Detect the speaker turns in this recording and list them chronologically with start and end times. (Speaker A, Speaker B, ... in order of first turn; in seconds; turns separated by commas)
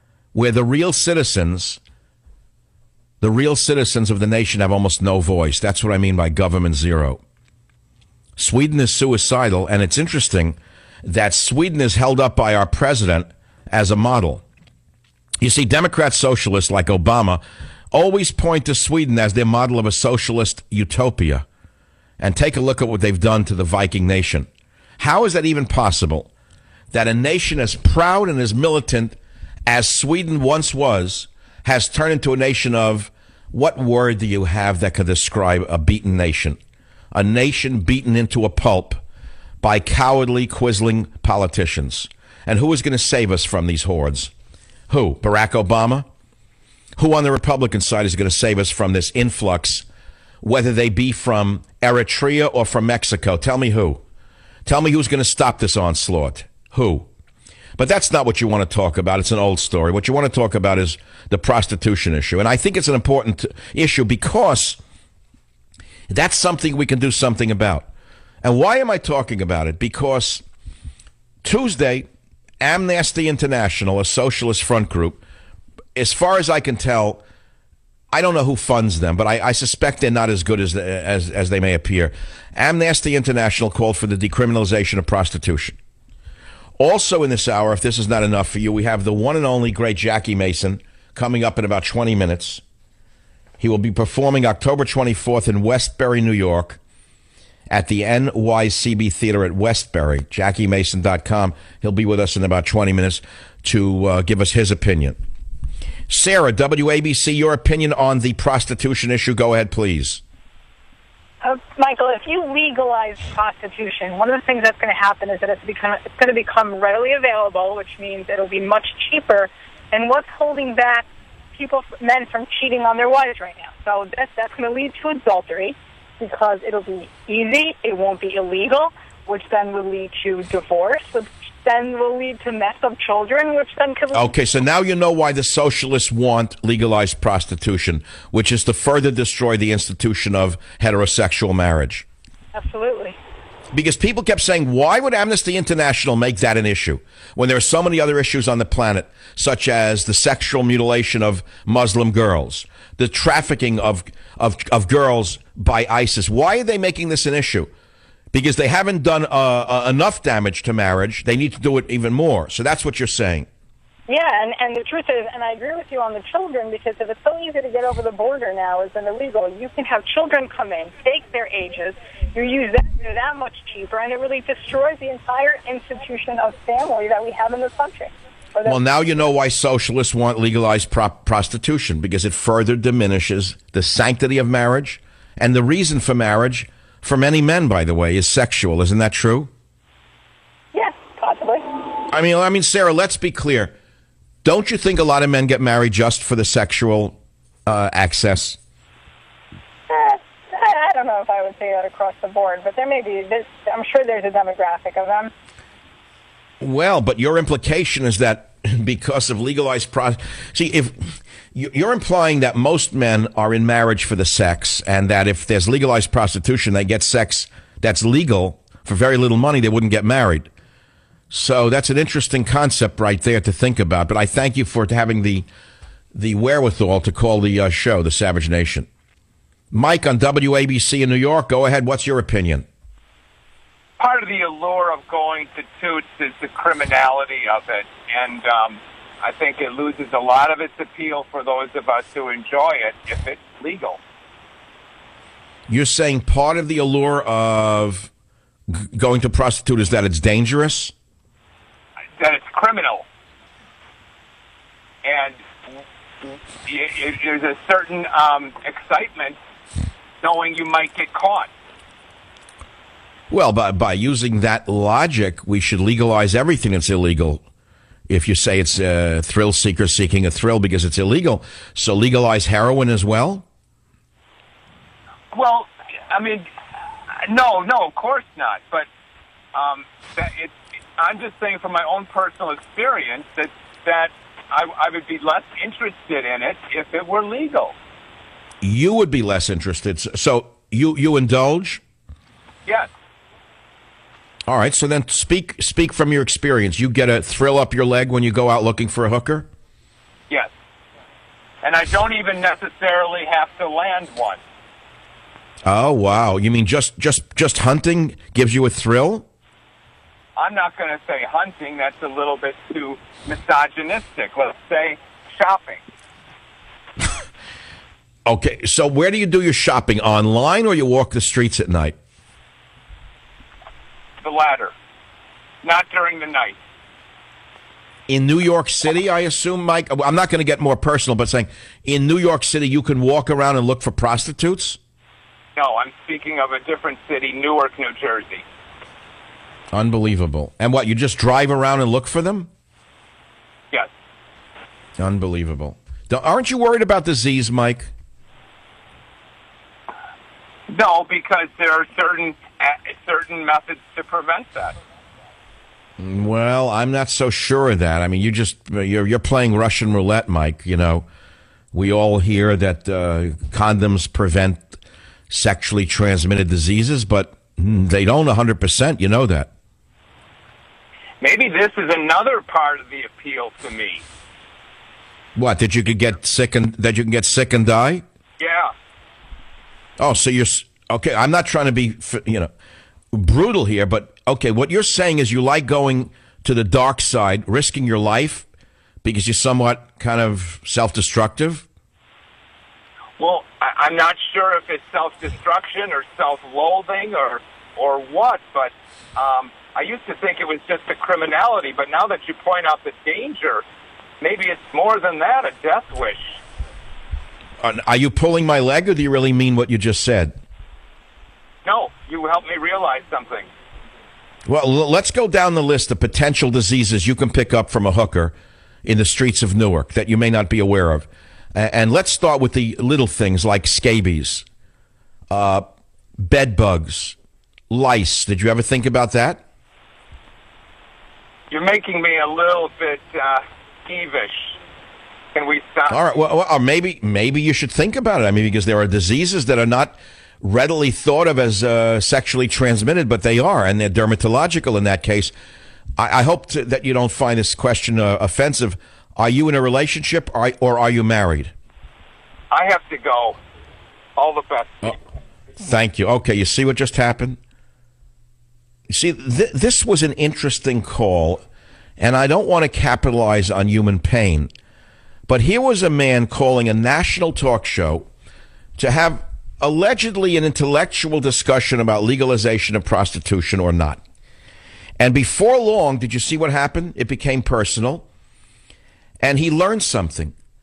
Speaker A: 0.3-1.8, Speaker A: 3.2-7.2, Speaker A: 8.4-14.4, Speaker A: 15.4-17.4, Speaker A: 17.9-21.4, Speaker A: 22.2-24.5, Speaker A: 25.0-26.3, Speaker A: 26.9-29.2, Speaker A: 29.7-36.6, Speaker A: 37.1-39.0, Speaker A: 39.6-44.3, Speaker A: 44.9-46.1, Speaker A: 47.0-49.9, Speaker A: 50.4-54.0, Speaker A: 54.7-57.1, Speaker A: 57.8-64.8, Speaker A: 66.1-67.9, Speaker A: 68.4-70.4, Speaker A: 71.4-72.1, Speaker A: 72.6-75.2, Speaker A: 76.0-77.2, Speaker A: 78.1-85.8, Speaker A: 86.8-92.6, Speaker A: 93.6-96.8, Speaker A: 97.7-105.2, Speaker A: 106.1-110.2, Speaker B: 111.4-134.3, Speaker A: 134.1-142.1, Speaker B: 142.6-143.2, Speaker A: 143.7-157.7, Speaker A: 158.3-163.5, Speaker B: 164.1-178.8, Speaker A: 178.7-189.5, Speaker B: 190.7-191.7, Speaker A: 192.1-193.7, Speaker A: 194.4-198.6, Speaker B: 199.9-205.3, Speaker A: 206.6-211.0, Speaker A: 211.6-220.5, Speaker A: 221.3-225.5, Speaker A: 226.1-228.9, Speaker A: 229.7-232.7, Speaker C: 234.0-244.0, Speaker A: 245.7-248.1, Speaker A: 248.7-250.9, Speaker C: 252.2-253.1, Speaker C: 255.0-255.4, Speaker C: 256.7-259.4, Speaker C: 260.2-261.5, Speaker A: 263.3-267.4, Speaker A: 268.1-273.4, Speaker C: 275.3-276.5, Speaker C: 277.2-278.9, Speaker C: 279.6-287.7, Speaker A: 288.6-291.8, Speaker A: 294.5-299.5, Speaker C: 301.6-304.4, Speaker A: 305.6-309.3, Speaker C: 310.4-315.8, Speaker A: 318.3-322.0, Speaker C: 324.2-324.7, Speaker C: 325.6-326.6, Speaker A: 328.1-334.8, Speaker C: 335.6-338.4, Speaker A: 339.7-342.5, Speaker A: 345.0-347.9, Speaker C: 350.7-354.7, Speaker A: 356.0-361.1, Speaker A: 361.7-364.8, Speaker A: 365.3-369.5, Speaker C: 371.2-374.0, Speaker A: 375.4-378.0, Speaker C: 378.4-378.7, Speaker A: 380.0-382.5, Speaker A: 383.1-388.5, Speaker A: 389.0-391.7, Speaker C: 393.2-403.6, Speaker C: 404.2-406.4, Speaker A: 407.6-410.4, Speaker C: 411.6-413.5, Speaker A: 414.5-418.3, Speaker A: 418.9-424.4, Speaker A: 425.3-425.7, Speaker A: 426.2-427.2, Speaker A: 427.7-429.4, Speaker C: 431.5-434.6, Speaker C: 435.4-436.0, Speaker A: 435.9-445.3, Speaker A: 446.0-451.5, Speaker C: 452.5-453.4, Speaker C: 454.2-455.0, Speaker A: 455.6-457.4, Speaker A: 458.9-461.4, Speaker A: 462.0-464.5, Speaker A: 465.3-468.1, Speaker A: 468.8-474.0, Speaker A: 475.0-478.1, Speaker A: 479.2-480.3